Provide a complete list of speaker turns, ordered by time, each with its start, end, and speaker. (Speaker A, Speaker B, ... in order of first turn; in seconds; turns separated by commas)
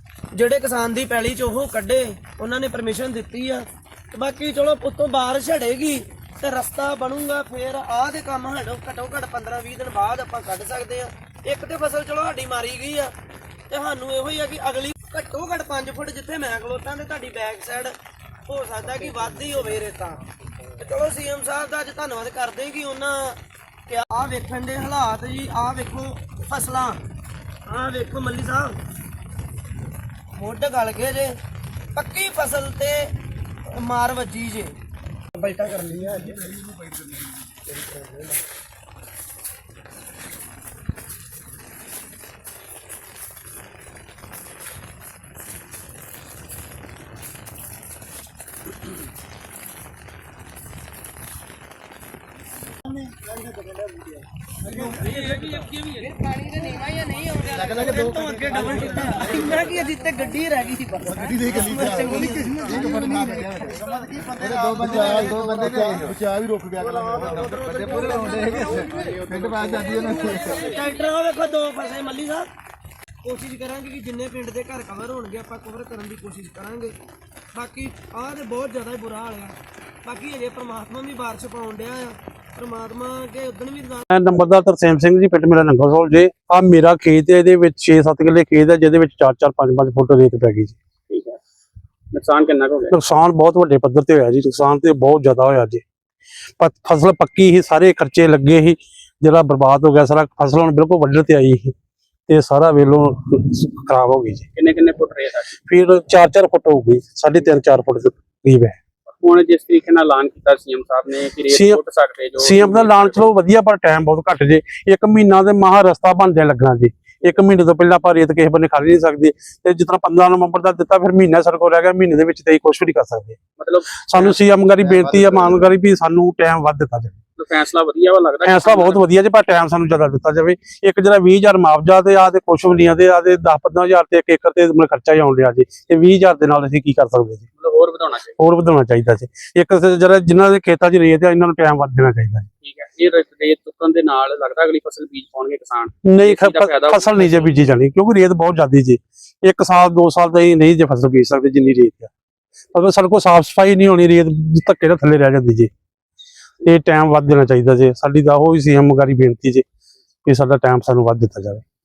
Speaker A: 0.3-13.1, Speaker A: 13.7-17.9, Speaker A: 18.5-20.2, Speaker A: 20.8-27.0, Speaker A: 27.7-28.8, Speaker A: 30.4-31.4, Speaker A: 31.9-33.1, Speaker A: 33.7-34.8, Speaker A: 35.4-36.5, Speaker A: 37.8-38.2, Speaker A: 54.7-63.4, Speaker B: 55.1-55.8, Speaker C: 61.2-63.8, Speaker A: 64.4-65.8, Speaker C: 64.4-67.5, Speaker A: 66.8-72.5, Speaker C: 68.2-68.7, Speaker C: 69.3-70.3, Speaker A: 73.2-77.0, Speaker A: 77.5-84.1, Speaker D: 84.1-90.8, Speaker B: 91.1-91.4, Speaker B: 92.1-92.9, Speaker D: 92.9-95.8, Speaker D: 96.6-101.7, Speaker D: 102.3-104.5, Speaker B: 104.5-105.5, Speaker D: 105.7-108.8, Speaker B: 109.1-113.3, Speaker D: 111.5-111.8, Speaker D: 112.4-123.4, Speaker B: 123.6-124.4, Speaker D: 124.1-127.2, Speaker B: 127.4-129.0, Speaker D: 128.4-137.5, Speaker B: 137.6-138.4, Speaker D: 138.4-142.5, Speaker B: 142.6-147.7, Speaker D: 146.1-152.1, Speaker D: 152.7-155.7, Speaker D: 156.7-159.6, Speaker D: 160.2-161.6